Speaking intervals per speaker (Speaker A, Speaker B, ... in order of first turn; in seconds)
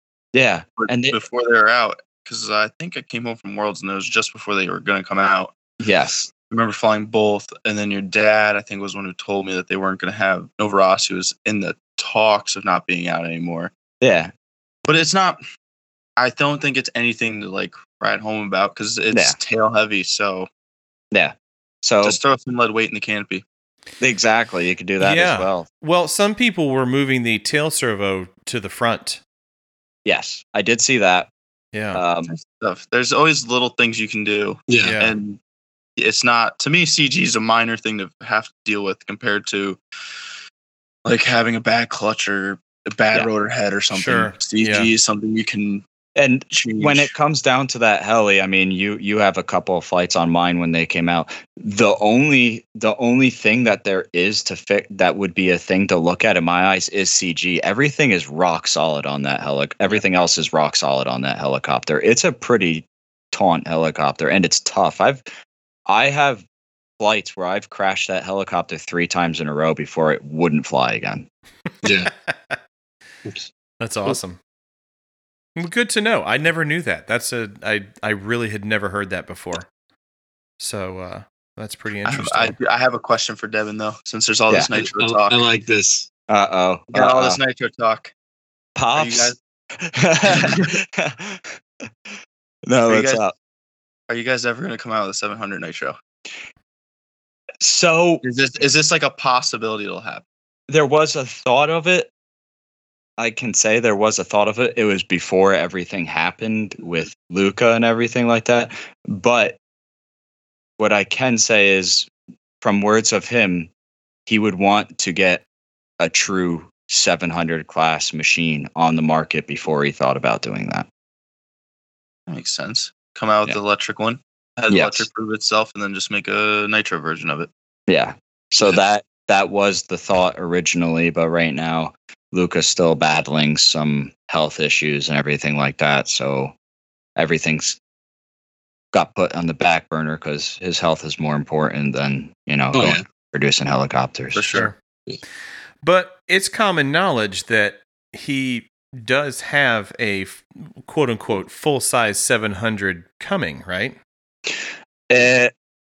Speaker A: 0.3-1.2, 5.8-6.3, 14.0-14.3, 19.1-19.4, 21.1-22.2, 24.0-25.7, 30.1-31.3, 31.9-32.3, 46.2-65.3, 65.9-66.5, 67.0-71.3, 86.3-87.4, 88.8-91.6, 92.7-93.3, 97.6-98.2, 100.7-102.1, 103.2-109.6, 110.8-112.1, 112.6-113.7, 114.3-115.4, 116.0-120.9, 124.7-125.1, 127.9-136.5, 137.2-137.8, 138.9-144.6, 155.1-155.5
Speaker B: 0.8-5.5, 6.5-13.7, 14.9-15.4, 16.2-20.5, 22.0-23.4, 32.3-35.4, 36.0-39.8, 41.0-45.8, 46.5-47.1, 82.0-85.4, 86.9-88.1, 89.0-89.4, 90.3-90.7, 92.9-93.2, 94.1-96.0, 98.2-100.2, 122.3-127.5, 144.3-144.7
Speaker C: 25.0-29.2, 31.7-32.0, 34.8-35.1, 43.9-44.9, 72.3-72.6, 73.8-74.4, 75.6-79.7, 80.6-82.5, 145.8-154.0
Speaker D: 34.7-35.0, 71.8-72.1, 84.7-86.1, 142.7-143.0